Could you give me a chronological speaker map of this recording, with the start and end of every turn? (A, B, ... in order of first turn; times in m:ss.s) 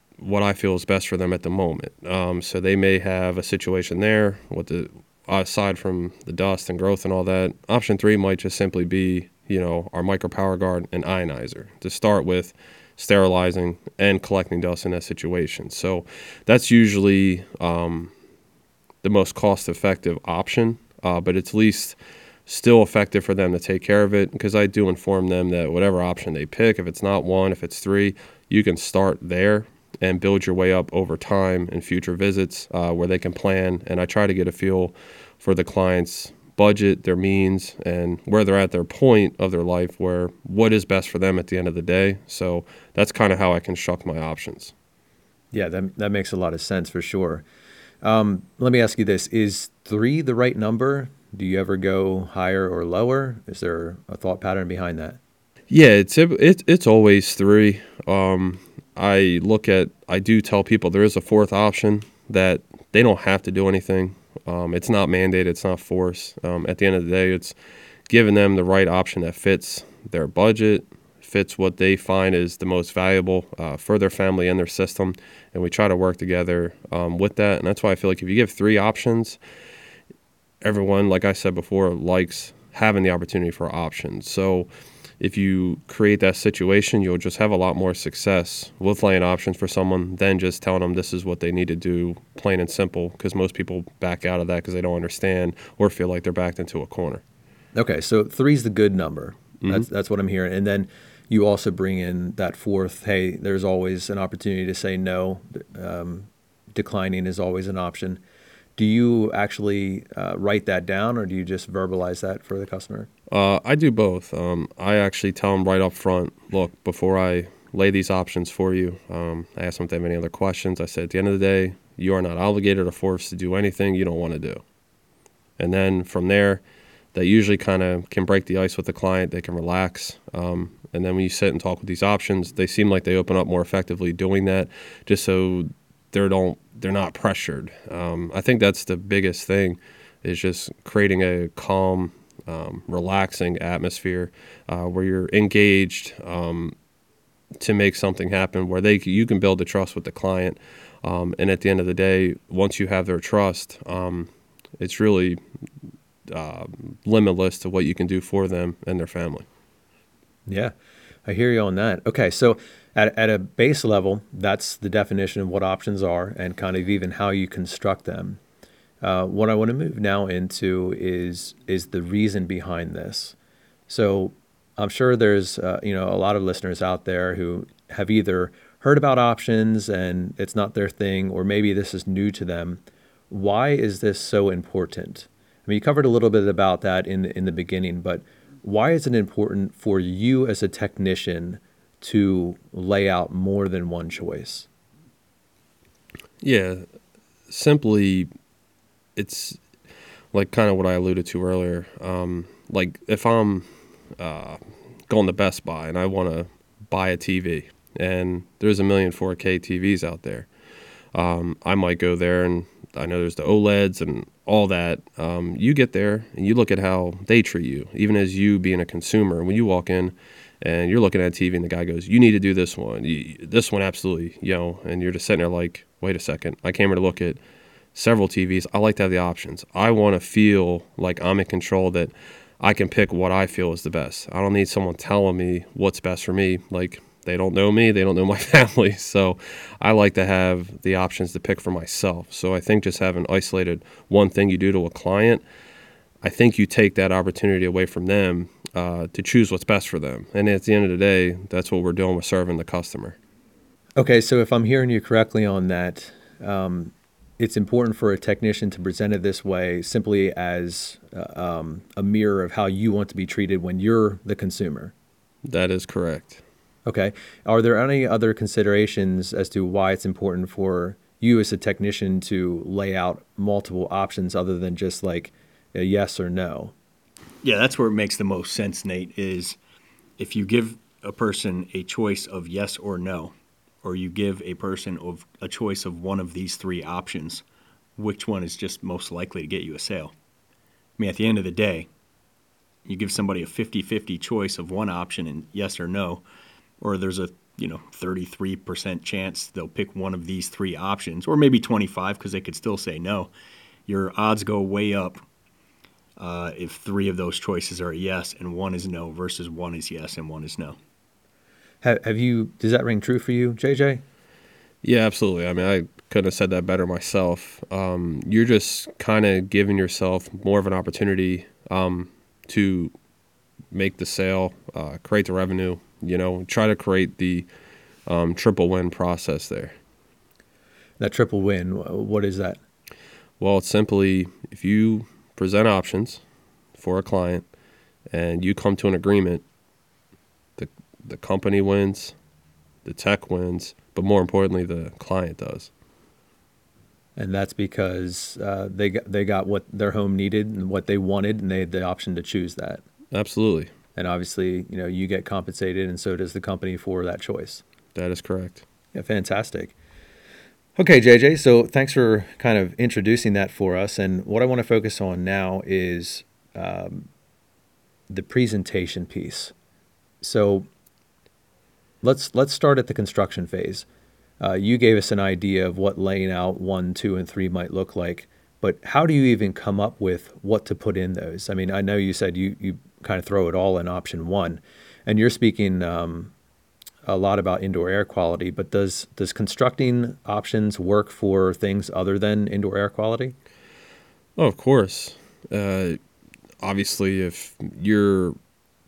0:00.2-0:18.1 A
0:19.0-0:44.7 A
0:45.5-0:47.4 B
0:48.0-0:55.2 B
0:55.7-1:07.5 A
1:08.1-1:19.4 A
1:20.6-1:24.7 A
1:25.2-1:37.2 A
1:37.7-1:48.2 B
1:39.6-1:39.9 A
1:48.8-1:53.1 B
1:53.3-2:04.6 A
2:05.6-2:06.6 A
2:07.1-2:26.7 A
2:27.6-2:35.4 A
2:36.3-2:39.4 A
2:40.5-2:40.7 B
2:41.2-2:48.4 B
2:49.0-2:53.3 B
2:53.9-3:14.7 B
3:16.4-3:16.8 A
3:17.5-3:18.3 A
3:19.2-3:19.6 A
3:20.3-3:23.7 A
3:24.2-3:30.5 A
3:31.1-3:47.4 A
3:47.9-4:05.4 A
4:06.2-4:13.2 A
4:14.0-4:24.9 B
4:25.4-4:26.4 A
4:26.8-4:36.7 B
4:37.4-4:39.6 C
4:40.2-4:47.4 C
4:48.0-4:50.1 C
4:51.0-4:51.9 C
4:52.8-4:56.2 C
4:56.8-5:03.3 C
5:03.8-5:05.2 C
5:06.2-5:10.8 C
5:11.8-5:14.0 B
5:14.8-5:22.9 A
5:23.7-5:27.5 A
5:28.1-5:29.7 A
5:31.0-5:32.6 B
5:33.4-5:36.2 A
5:36.8-5:37.4 A
5:38.1-5:39.4 A
5:40.6-5:42.2 A
5:42.8-5:45.7 A
5:47.2-5:52.8 B
5:53.1-5:53.7 A
5:54.0-5:57.6 B
5:57.9-5:58.6 A
5:58.9-5:59.7 B
6:00.8-6:07.1 B
6:08.1-6:09.5 B
6:10.2-6:10.7 B
6:12.0-6:13.8 B
6:14.4-6:26.3 B
6:27.0-6:33.4 B
6:34.4-6:36.0 A
6:36.6-6:38.4 A